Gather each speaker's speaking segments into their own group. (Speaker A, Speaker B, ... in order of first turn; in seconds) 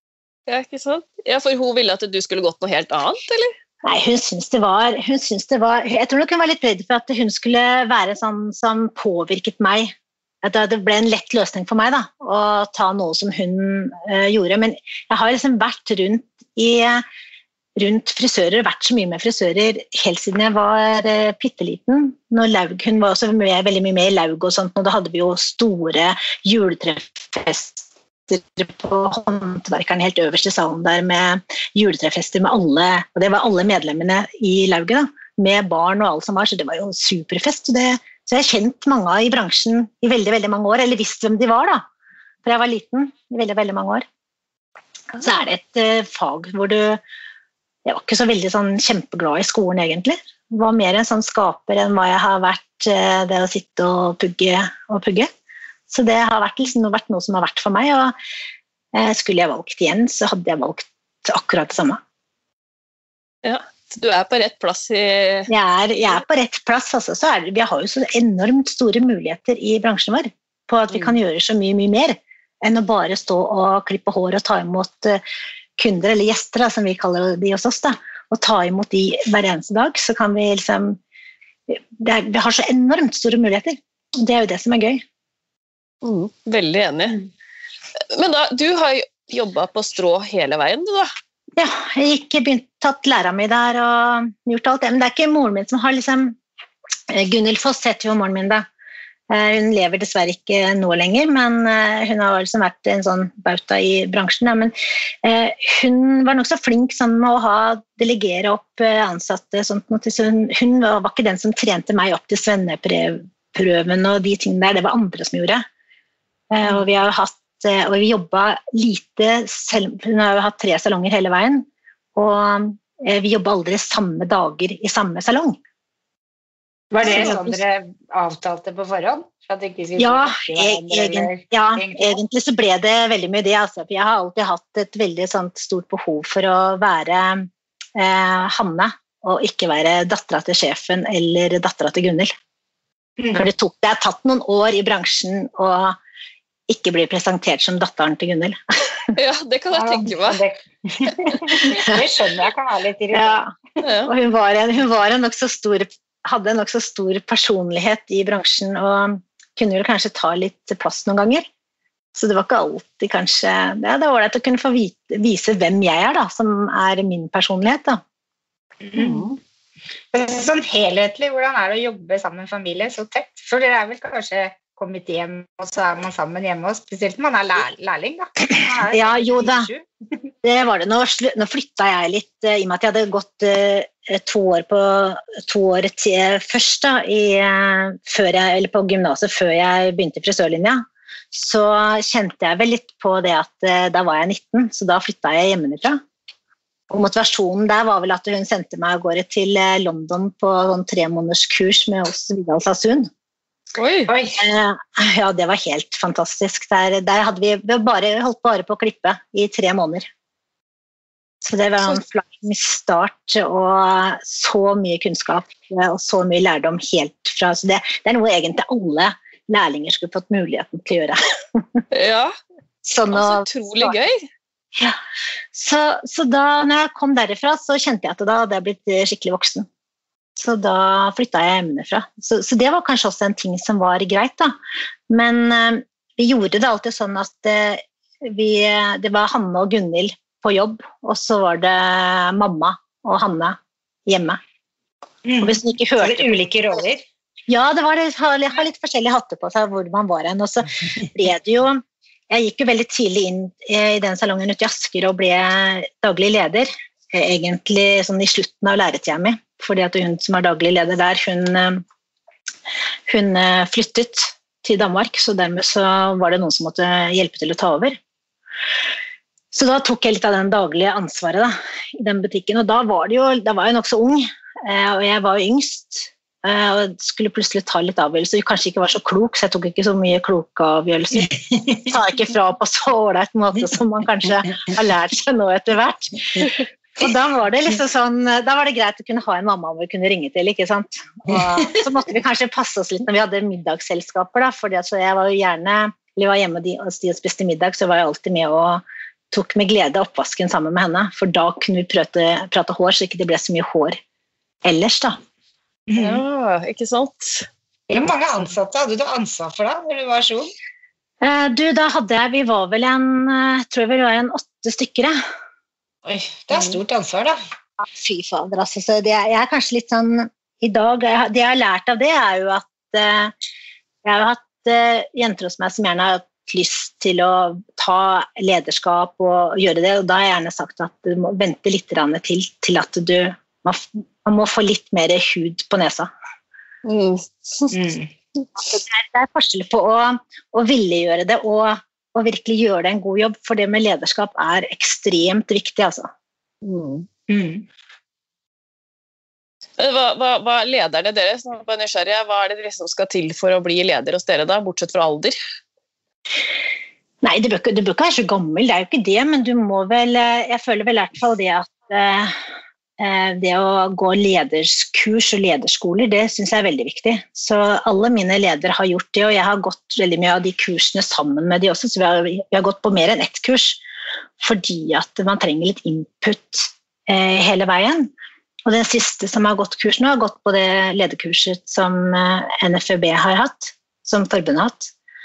Speaker A: 0.5-3.5, 63.4-65.5, 86.0-87.2, 88.1-91.1, 149.1-150.4, 153.8-154.1, 168.9-169.4, 203.8-204.1, 221.9-222.3, 223.1-224.2, 306.0-307.5, 316.5-316.8, 336.8-337.7, 346.6-347.1, 349.8-355.4
Speaker B: 3.8-17.0, 17.8-41.8, 42.4-44.0, 45.2-47.0, 47.8-55.3, 55.9-58.1, 58.9-62.0, 65.5-75.2, 75.8-81.0, 81.7-85.0, 91.6-96.4, 97.1-98.6, 99.3-115.6, 116.5-125.6, 127.0-127.6, 130.0-142.3, 143.4-145.9, 146.7-149.1, 153.1-161.4, 162.1-168.0, 178.9-179.7, 180.4-190.8, 191.3-196.0, 196.9-203.1, 204.4-210.1, 211.4-221.8, 222.9-223.9, 225.5-229.7, 230.4-234.6, 235.1-244.4, 245.4-246.8, 247.5-261.8, 263.1-268.0, 269.5-304.0, 304.6-305.2, 311.2-315.1, 317.8-323.3, 324.0-336.1, 338.6-346.1, 357.2-362.4, 363.0-373.8, 374.4-378.1, 378.6-384.9
Speaker C: 126.9-132.2, 143.2-143.4, 149.7-153.4, 168.8-169.3, 170.1-179.9, 204.1-204.4, 245.2-247.0, 305.9-306.2, 307.9-310.5, 316.1-317.4, 337.7-338.1, 347.3-347.6